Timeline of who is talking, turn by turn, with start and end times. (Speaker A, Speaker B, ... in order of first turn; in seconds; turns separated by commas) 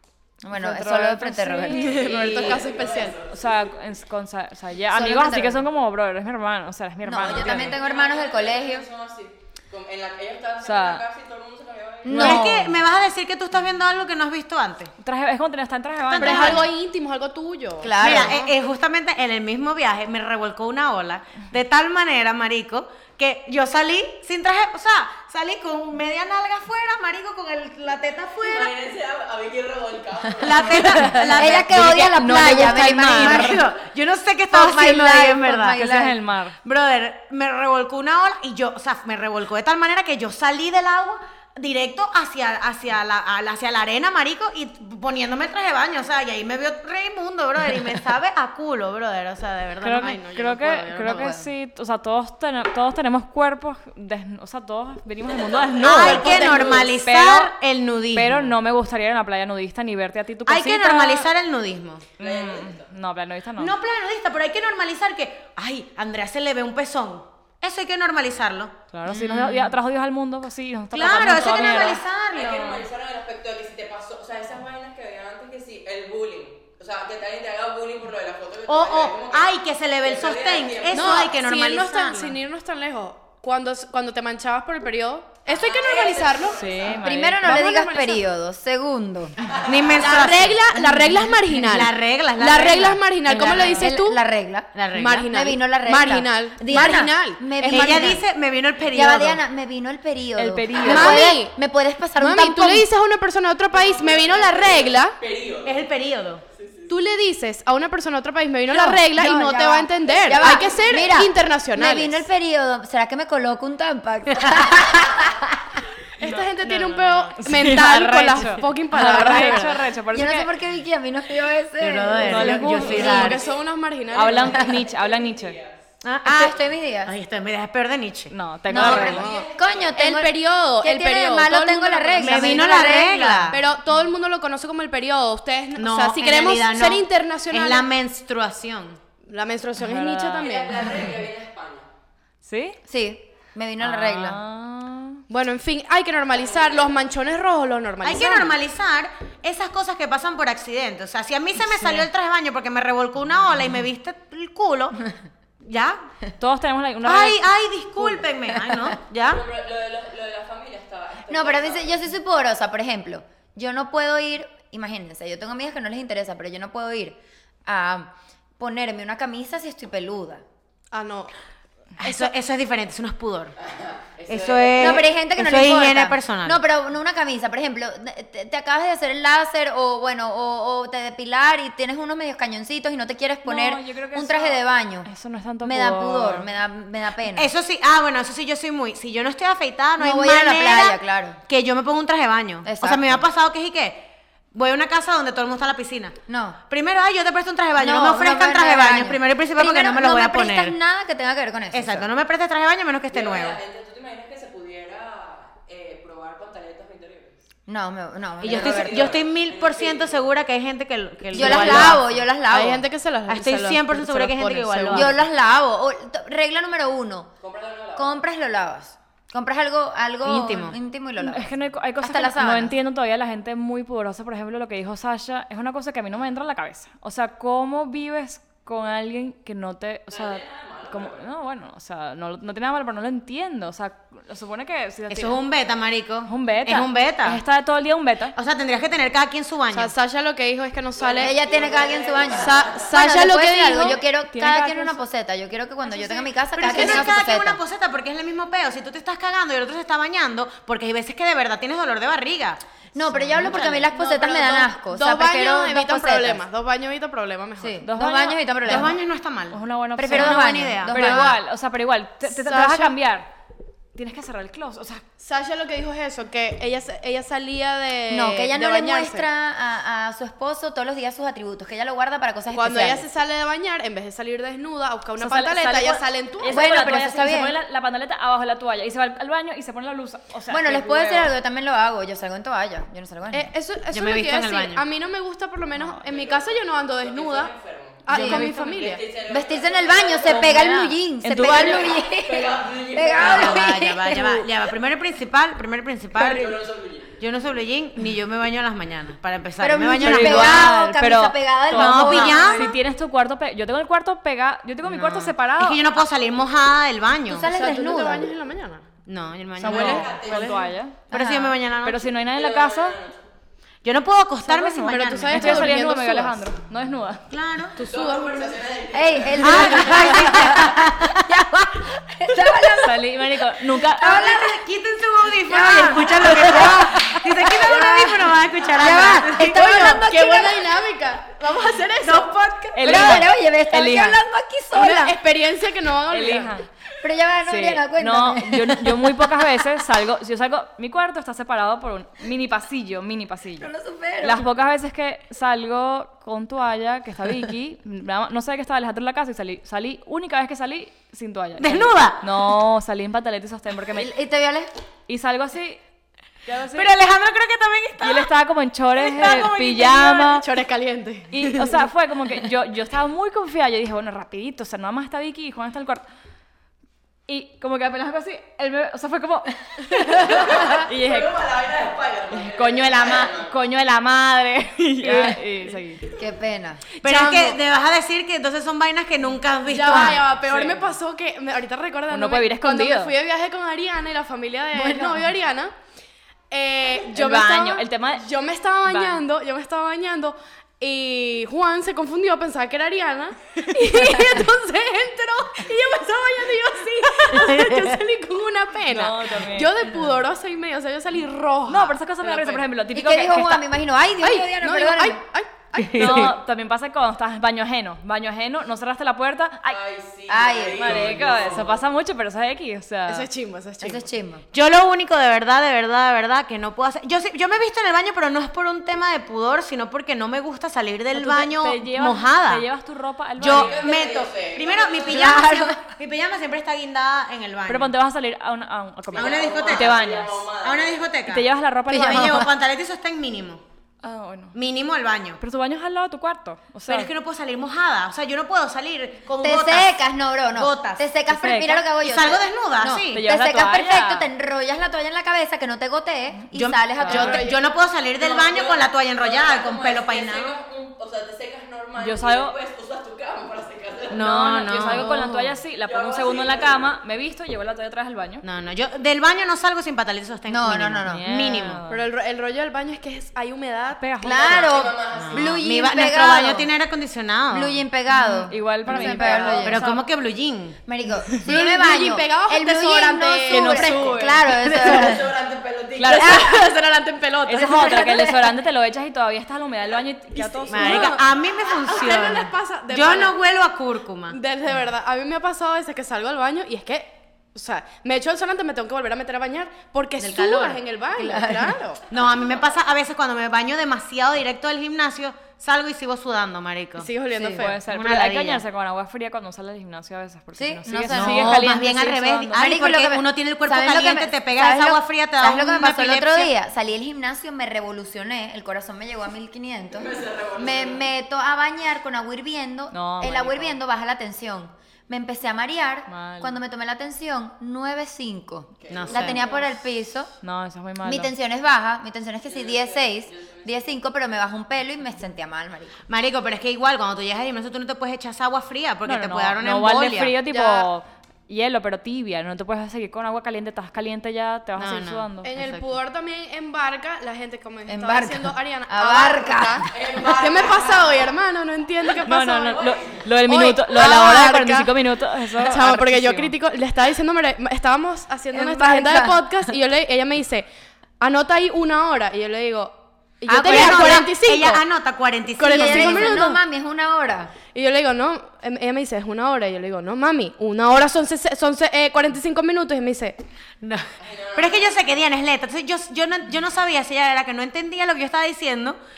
Speaker A: 0.4-2.0, Speaker B: 0.5-2.5, Speaker C: 1.7-3.2, Speaker D: 1.8-3.6, Speaker B: 3.2-7.8, Speaker A: 4.9-5.7, Speaker A: 7.0-8.8, Speaker D: 7.2-12.5, Speaker B: 10.6-11.0, Speaker A: 12.0-12.8, Speaker E: 12.1-14.9, Speaker B: 15.0-16.7, Speaker E: 16.1-16.6, Speaker C: 16.2-18.4, Speaker A: 17.8-18.5, Speaker E: 18.0-28.7, Speaker D: 28.4-31.1, Speaker E: 30.4-35.9, Speaker A: 31.3-33.7, Speaker A: 34.5-36.2, Speaker B: 35.7-36.6, Speaker E: 36.6-51.3, Speaker B: 49.8-57.5, Speaker C: 50.0-50.5, Speaker A: 51.0-51.5, Speaker D: 55.2-56.6, Speaker E: 55.8-58.5, Speaker C: 55.9-56.9, Speaker B: 58.1-61.3, Speaker E: 60.5-62.0, Speaker D: 62.2-62.9, Speaker B: 62.2-63.7, Speaker E: 63.6-69.7, Speaker B: 68.9-72.0, Speaker E: 70.9-72.9, Speaker D: 71.0-81.3, Speaker E: 78.7-82.4, Speaker C: 80.9-86.7, Speaker D: 85.5-87.0, Speaker B: 86.5-87.6, Speaker A: 87.0-89.3, Speaker C: 87.4-88.2, Speaker E: 89.6-90.8, Speaker C: 89.9-94.2, Speaker E: 91.5-93.8, Speaker A: 93.3-98.2, Speaker E: 94.7-95.3, Speaker C: 94.9-98.2, Speaker E: 97.6-99.4, Speaker A: 98.9-102.8, Speaker B: 100.3-101.3, Speaker C: 100.8-101.5, Speaker C: 102.2-105.2, Speaker D: 103.7-105.8, Speaker E: 105.6-106.4, Speaker D: 106.5-107.0, Speaker C: 106.9-112.2, Speaker A: 108.7-115.6, Speaker E: 114.4-114.8, Speaker C: 116.2-119.8, Speaker B: 116.2-120.5, Speaker A: 119.0-119.6, Speaker A: 120.1-123.2, Speaker E: 121.8-123.4, Speaker B: 122.2-123.3, Speaker C: 122.8-124.8, Speaker D: 122.9-125.8, Speaker B: 124.1-125.6, Speaker E: 126.0-129.3, Speaker A: 126.2-127.1, Speaker B: 128.3-129.3, Speaker A: 128.7-133.6, Speaker C: 128.8-132.8, Speaker D: 129.1-129.9, Speaker E: 132.2-133.6, Speaker C: 133.5-137.8, Speaker E: 135.8-139.0, Speaker C: 139.2-140.9, Speaker B: 139.8-140.4, Speaker D: 140.3-141.9, Speaker B: 142.4-142.8, Speaker A: 142.9-144.4, Speaker B: 143.8-145.2, Speaker C: 145.3-148.5, Speaker D: 146.3-146.9, Speaker E: 148.0-155.0, Speaker E: 155.6-156.0, Speaker B: 156.4-157.4, Speaker E: 157.0-159.4, Speaker D: 159.2-162.0, Speaker A: 161.3-170.4, Speaker C: 170.9-171.3, Speaker E: 172.0-173.6, Speaker C: 172.0-172.3, Speaker D: 173.7-175.0, Speaker E: 174.3-176.6, Speaker A: 174.8-185.1, Speaker B: 183.4-186.5, Speaker A: 185.6-187.5, Speaker E: 187.3-200.8, Speaker A: 190.0-191.4, Speaker A: 192.6-193.2, Speaker A: 196.3-196.6, Speaker A: 197.8-202.1, Speaker E: 201.7-203.6, Speaker D: 203.1-207.4, Speaker A: 207.7-209.1, Speaker E: 208.4-212.2, Speaker D: 208.4-210.2, Speaker A: 211.3-212.9, Speaker C: 211.4-215.2, Speaker E: 213.3-215.2, Speaker A: 214.9-217.3, Speaker D: 217.4-218.2, Speaker A: 217.9-222.7, Speaker E: 220.2-220.8, Speaker B: 221.2-235.4, Speaker D: 230.1-231.2, Speaker E: 235.1-237.4, Speaker B: 236.2-238.3, Speaker E: 238.3-239.9, Speaker C: 239.7-241.4, Speaker D: 241.0-242.9, Speaker A: 241.2-247.6, Speaker C: 242.3-244.0, Speaker B: 244.3-245.0, Speaker E: 246.6-253.9, Speaker C: 246.6-247.1, Speaker A: 252.9-256.4, Speaker C: 253.8-257.8, Speaker A: 257.6-259.0, Speaker B: 257.8-258.9, Speaker E: 258.6-261.3, Speaker B: 259.5-263.3, Speaker A: 260.0-261.4, Speaker C: 262.2-262.9, Speaker B: 263.9-265.0, Speaker C: 265.2-269.2, Speaker A: 268.1-273.1, Speaker C: 272.5-276.6, Speaker B: 275.2-281.3, Speaker A: 276.5-277.5, Speaker A: 280.5-283.5, Speaker C: 283.3-287.5, Speaker E: 283.9-284.8, Speaker D: 286.0-293.8, Speaker C: 288.1-289.0, Speaker A: 288.1-288.5, Speaker A: 289.3-294.5, Speaker B: 291.2-291.9, Speaker E: 293.2-296.5, Speaker D: 296.2-297.2, Speaker E: 297.2-300.8, Speaker A: 299.6-302.7, Speaker B: 300.0-306.0, Speaker E: 301.7-302.7, Speaker E: 304.9-307.5, Speaker A: 307.3-308.3, Speaker C: 307.4-308.9, Speaker E: 309.1-310.2, Speaker B: 309.6-311.0, Speaker C: 309.6-310.6, Speaker D: 309.7-310.7, Speaker A: 311.1-311.6, Speaker E: 311.1-312.1, Speaker B: 311.8-313.0, Speaker D: 312.2-313.2, Speaker E: 313.8-315.7, Speaker B: 314.4-317.3, Speaker C: 314.9-316.4, Speaker E: 317.3-317.8, Speaker C: 317.8-318.7, Speaker D: 317.8-320.1, Speaker A: 318.9-323.0, Speaker E: 319.4-321.7, Speaker C: 319.6-320.3, Speaker B: 322.8-324.3, Speaker A: 323.8-324.6, Speaker E: 324.0-329.8, Speaker A: 325.4-330.6, Speaker C: 326.3-326.9, Speaker C: 329.2-333.2, Speaker B: 332.7-334.2, Speaker A: 332.8-335.2, Speaker C: 334.7-336.6, Speaker B: 336.1-336.7, Speaker A: 337.0-339.4, Speaker B: 337.4-354.1, Speaker A: 343.6-344.4, Speaker E: 351.6-352.2, Speaker A: 353.9-354.7, Speaker B: 355.1-355.8, Speaker B: 356.4-356.9, Speaker E: 356.7-358.3, Speaker B: 358.0-360.5, Speaker E: 359.0-360.1, Speaker C: 359.2-361.8, Speaker B: 361.3-366.0, Speaker B: 367.3-371.4, Speaker D: 370.3-373.5, Speaker B: 372.3-376.1, Speaker A: 376.1-376.9, Speaker E: 377.0-380.2, Speaker C: 377.1-377.5, Speaker C: 379.7-385.7, Speaker B: 379.9-380.9, Speaker B: 382.1-383.1, Speaker A: 384.8-385.2, Speaker C: 386.5-402.6, Speaker B: 387.1-388.3, Speaker B: 388.8-389.2, Speaker E: 397.3-397.9, Speaker B: 398.9-400.1, Speaker B: 401.6-403.6, Speaker A: 402.9-405.2, Speaker C: 404.2-406.3, Speaker E: 405.8-406.3, Speaker B: 405.9-409.8, Speaker D: 409.6-411.7, Speaker A: 410.3-411.1, Speaker B: 410.7-413.3, Speaker C: 413.1-414.1, Speaker A: 413.8-414.4, Speaker E: 414.5-422.6, Speaker B: 421.1-423.9, Speaker E: 423.4-427.9, Speaker D: 423.4-425.3, Speaker A: 425.1-425.8, Speaker B: 427.7-430.4, Speaker D: 429.1-431.1, Speaker E: 429.1-430.0, Speaker E: 430.6-433.6, Speaker B: 431.3-432.5, Speaker A: 431.9-432.5, Speaker B: 434.0-434.6, Speaker E: 434.5-435.4, Speaker B: 435.4-437.1, Speaker E: 436.9-441.1, Speaker A: 439.4-447.5, Speaker B: 441.3-441.9, Speaker E: 442.0-443.2, Speaker B: 443.1-444.3, Speaker E: 446.5-450.5, Speaker B: 447.0-447.4, Speaker C: 447.1-447.5, Speaker D: 448.2-455.0, Speaker B: 452.0-452.5, Speaker E: 454.1-455.5, Speaker B: 454.1-458.4, Speaker D: 455.8-456.9, Speaker E: 458.4-461.8, Speaker A: 460.5-461.2, Speaker B: 461.1-462.1, Speaker C: 461.9-464.7, Speaker B: 464.0-464.7, Speaker A: 464.2-466.7, Speaker D: 464.2-465.6, Speaker E: 465.1-467.8, Speaker A: 467.5-469.8, Speaker B: 468.1-470.0, Speaker E: 468.9-470.8, Speaker A: 470.9-475.3, Speaker C: 471.3-475.2, Speaker B: 473.5-474.5, Speaker D: 474.6-477.7, Speaker B: 475.9-476.4, Speaker C: 476.1-478.1, Speaker B: 477.4-481.1, Speaker A: 477.6-478.4, Speaker C: 480.5-483.4, Speaker E: 480.7-484.4, Speaker C: 484.3-492.0, Speaker E: 490.2-490.8, Speaker A: 491.2-491.7, Speaker E: 492.1-497.1, Speaker C: 497.0-497.8, Speaker A: 497.3-497.6, Speaker B: 497.5-502.7, Speaker E: 497.8-498.6, Speaker A: 500.6-501.7, Speaker E: 501.1-506.5, Speaker A: 502.5-520.3, Speaker D: 509.9-511.0, Speaker B: 512.9-513.8, Speaker B: 516.1-516.6, Speaker D: 518.8-519.7, Speaker E: 518.9-519.4, Speaker B: 520.4-521.3, Speaker A: 521.0-526.0, Speaker D: 522.5-523.9, Speaker E: 526.1-530.4, Speaker B: 529.0-535.5, Speaker C: 530.5-530.9, Speaker E: 534.8-535.9, Speaker C: 535.4-544.9, Speaker A: 537.9-539.9, Speaker D: 539.9-541.2, Speaker B: 542.2-546.5, Speaker D: 542.8-543.1, Speaker C: 545.5-550.6, Speaker A: 548.5-549.4, Speaker C: 551.2-554.8, Speaker E: 553.5-556.5, Speaker A: 553.7-554.1, Speaker C: 555.6-556.6, Speaker A: 555.6-557.5, Speaker C: 557.7-563.4, Speaker E: 563.8-569.0, Speaker D: 564.2-565.0